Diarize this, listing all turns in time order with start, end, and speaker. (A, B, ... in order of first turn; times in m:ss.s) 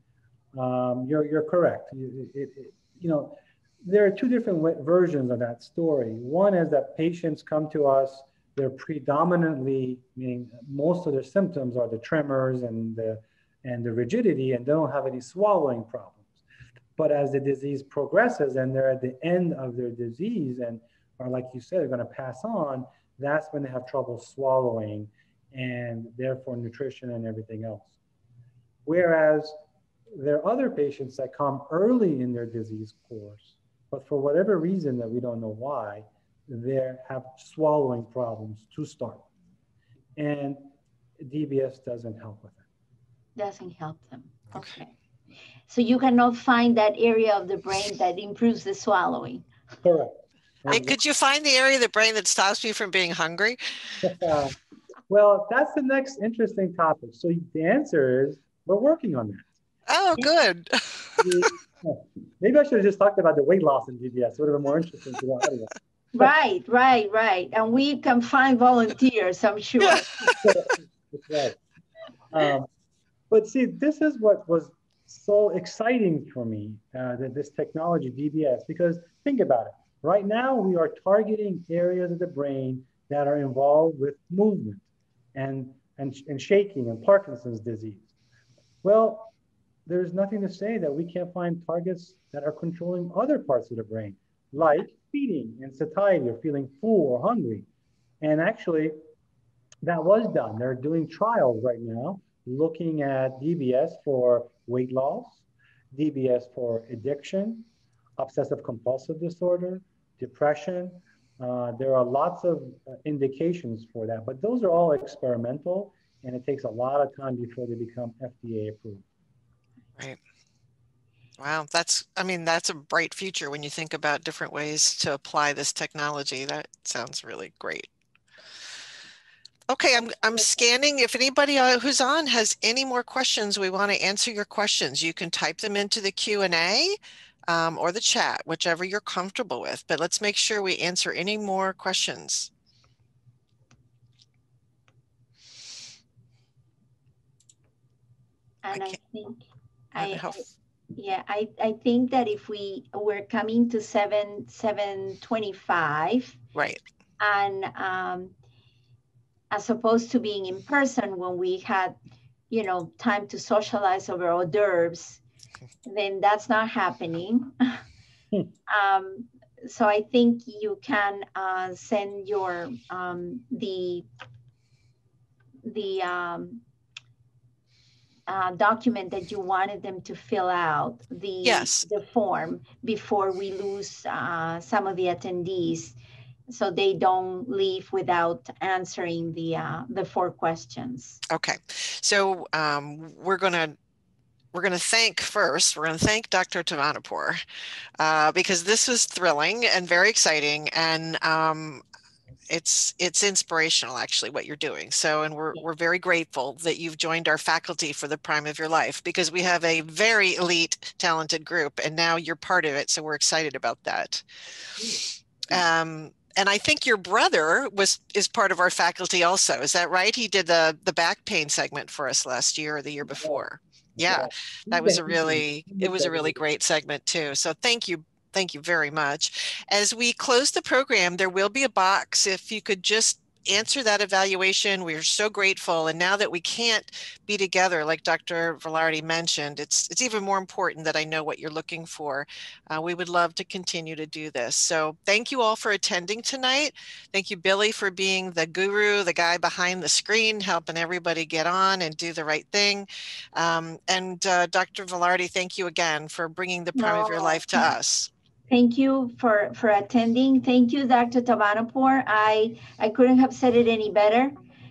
0:00.5-0:16.4 A
0:17.0-0:27.9 A
0:28.8-0:29.5 A
0:30.1-0:39.2 A
0:40.2-0:42.6 A
0:43.4-0:45.0 B
0:45.7-0:49.4 B
0:49.8-0:51.0 A
0:50.7-0:53.6 C
0:54.0-0:54.6 A
0:55.1-0:59.5 A
0:59.9-1:01.3 C
1:01.2-1:05.7 A
1:06.1-1:10.1 B
1:10.2-1:11.6 A
1:12.3-1:12.7 A
1:13.3-1:28.1 A
1:28.8-1:29.3 A
1:29.8-1:37.7 A
1:38.2-1:39.0 A
1:39.8-1:59.0 A
2:01.4-2:07.9 C
2:09.7-2:16.9 C
2:17.5-2:22.5 C
2:28.6-2:30.4 B
2:30.0-2:30.5 C
2:30.9-2:36.4 B
2:36.5-2:36.8 C
2:37.2-2:38.4 B
2:39.5-2:42.0 B
2:42.5-2:45.2 B
2:45.8-2:47.8 B
2:48.7-2:54.0 B
2:55.6-2:56.6 B
2:58.3-3:06.0 B
3:01.4-3:01.8 C
3:06.5-3:11.2 B
3:11.3-3:13.7 C
3:14.5-3:17.4 C
3:18.0-3:21.8 C
3:22.5-3:34.2 C
3:34.8-3:35.6 A
3:35.5-4:18.1 C
3:43.2-3:43.4 A
3:44.0-3:46.4 A
4:16.8-4:17.7 B
4:18.5-4:24.4 B